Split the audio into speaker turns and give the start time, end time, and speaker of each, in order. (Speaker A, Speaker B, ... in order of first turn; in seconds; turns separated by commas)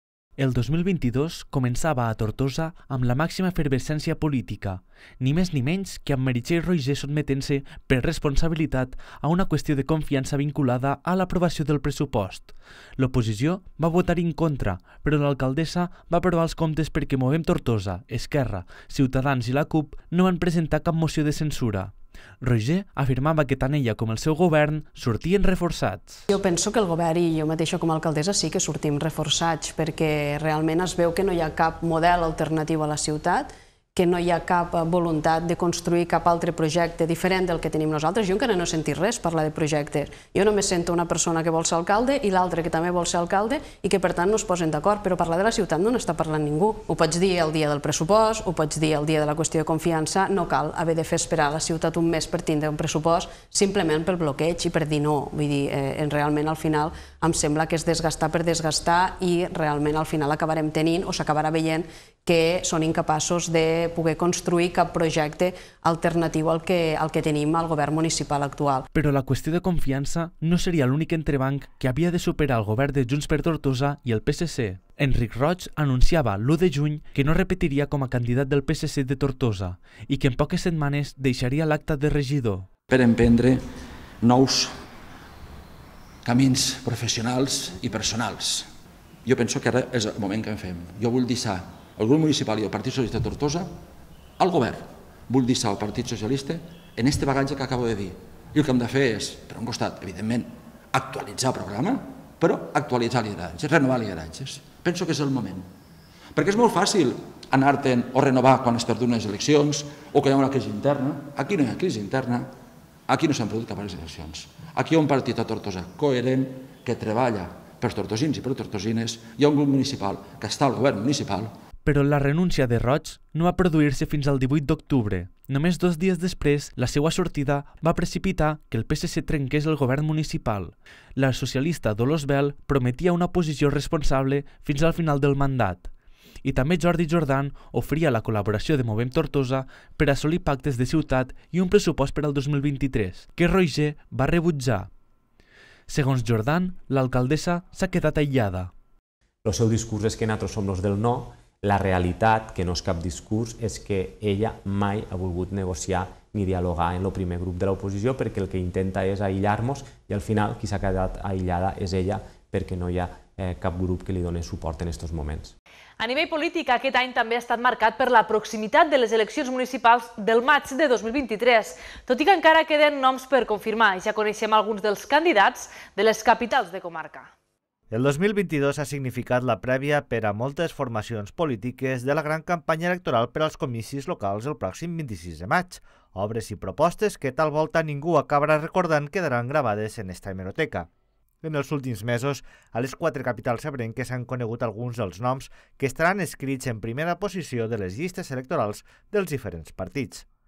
Speaker A: 0.4-26.2, Speaker B: 26.3-68.8, Speaker A: 68.9-82.7, Speaker C: 82.9-83.7, Speaker C: 84.2-84.8, Speaker C: 86.2-88.7, Speaker C: 89.2-93.8, Speaker C: 94.4-105.7, Speaker C: 106.3-112.5, Speaker C: 113.1-121.5, Speaker A: 121.8-135.9, Speaker A: 136.4-144.9, Speaker A: 145.9-148.7, Speaker D: 149.4-165.5, Speaker E: 166.0-177.3, Speaker F: 177.9-190.9, Speaker F: 191.4-200.3